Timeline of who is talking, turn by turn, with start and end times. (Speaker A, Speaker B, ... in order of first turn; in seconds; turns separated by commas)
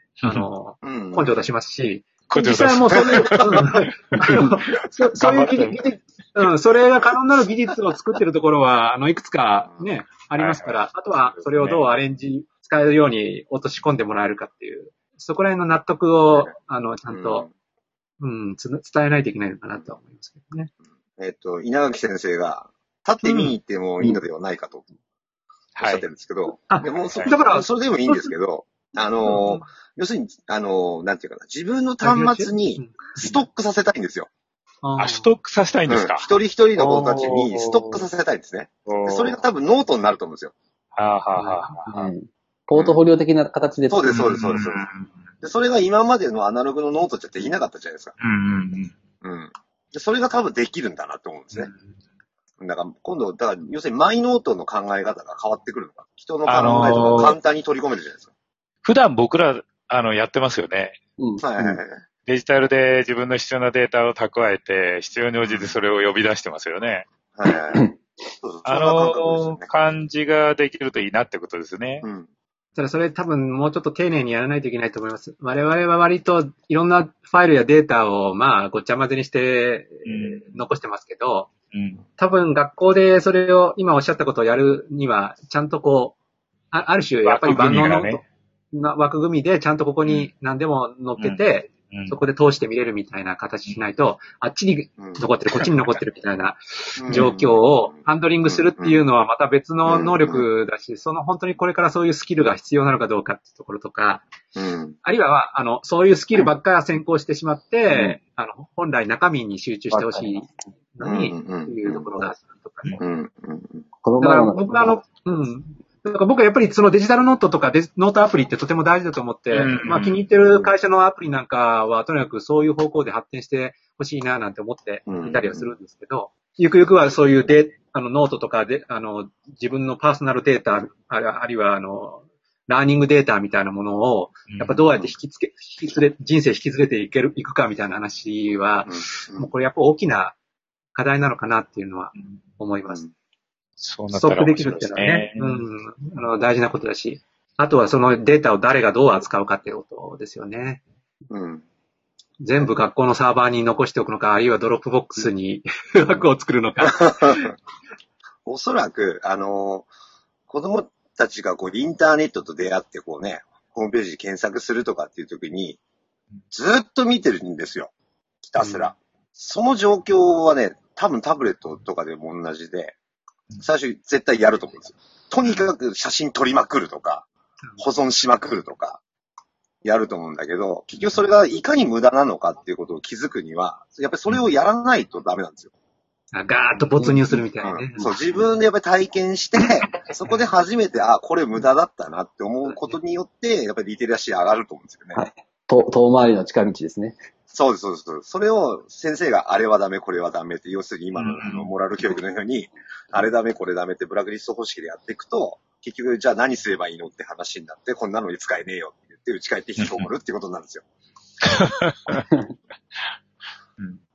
Speaker A: 0.2-0.5, Speaker B: 0.2-17.5, Speaker C: 0.8-1.4, Speaker A: 2.3-4.5, Speaker C: 2.9-3.6, Speaker A: 5.2-5.8, Speaker A: 10.4-12.0, Speaker C: 17.1-17.5, Speaker B: 18.2-20.7, Speaker C: 21.2-24.9, Speaker B: 23.2-23.6, Speaker A: 25.8-26.1, Speaker C: 25.8-34.3, Speaker B: 26.7-28.3, Speaker B: 29.2-29.7, Speaker B: 32.0-33.4, Speaker B: 34.8-35.3, Speaker A: 35.0-38.0, Speaker C: 35.9-40.5, Speaker A: 38.9-39.4, Speaker A: 40.9-41.8, Speaker B: 41.4-42.0, Speaker D: 41.9-44.3, Speaker C: 42.7-43.0, Speaker C: 43.9-44.9, Speaker A: 44.1-45.1, Speaker C: 45.4-48.1, Speaker A: 48.2-48.9, Speaker C: 49.2-51.7, Speaker C: 52.6-58.3, Speaker A: 56.5-57.4, Speaker A: 58.8-61.0, Speaker D: 61.2-61.8, Speaker C: 61.4-62.0, Speaker A: 62.3-67.1, Speaker C: 65.4-65.8, Speaker C: 67.3-69.7, Speaker A: 68.6-72.1, Speaker C: 72.0-72.3, Speaker B: 72.8-81.5, Speaker A: 80.0-80.6, Speaker A: 81.7-82.0, Speaker B: 82.2-86.2, Speaker B: 86.7-104.2, Speaker A: 87.2-88.2, Speaker A: 91.2-92.2, Speaker C: 95.0-95.3, Speaker C: 97.0-99.0, Speaker A: 97.1-97.3, Speaker C: 99.9-100.5, Speaker C: 104.5-105.0, Speaker B: 105.0-113.0, Speaker D: 109.9-110.5, Speaker C: 111.0-112.2, Speaker C: 113.0-113.9, Speaker D: 114.0-115.0, Speaker B: 114.2-140.4, Speaker A: 119.5-120.2, Speaker C: 125.1-125.7, Speaker A: 134.5-134.8, Speaker C: 138.9-139.5, Speaker B: 140.9-143.0, Speaker A: 143.8-145.6, Speaker B: 144.1-150.8, Speaker C: 151.3-151.6, Speaker B: 152.4-157.6, Speaker C: 156.9-157.5, Speaker C: 158.4-159.9, Speaker C: 160.5-165.8, Speaker C: 166.5-167.9, Speaker C: 168.4-172.9, Speaker B: 168.6-168.9, Speaker C: 173.6-177.3, Speaker C: 177.8-179.0, Speaker C: 179.8-185.7, Speaker B: 186.3-188.5, Speaker D: 187.0-187.4, Speaker C: 187.6-195.2, Speaker D: 195.1-197.2, Speaker C: 197.5-210.8, Speaker A: 201.2-201.7, Speaker A: 209.8-210.1, Speaker A: 211.4-212.2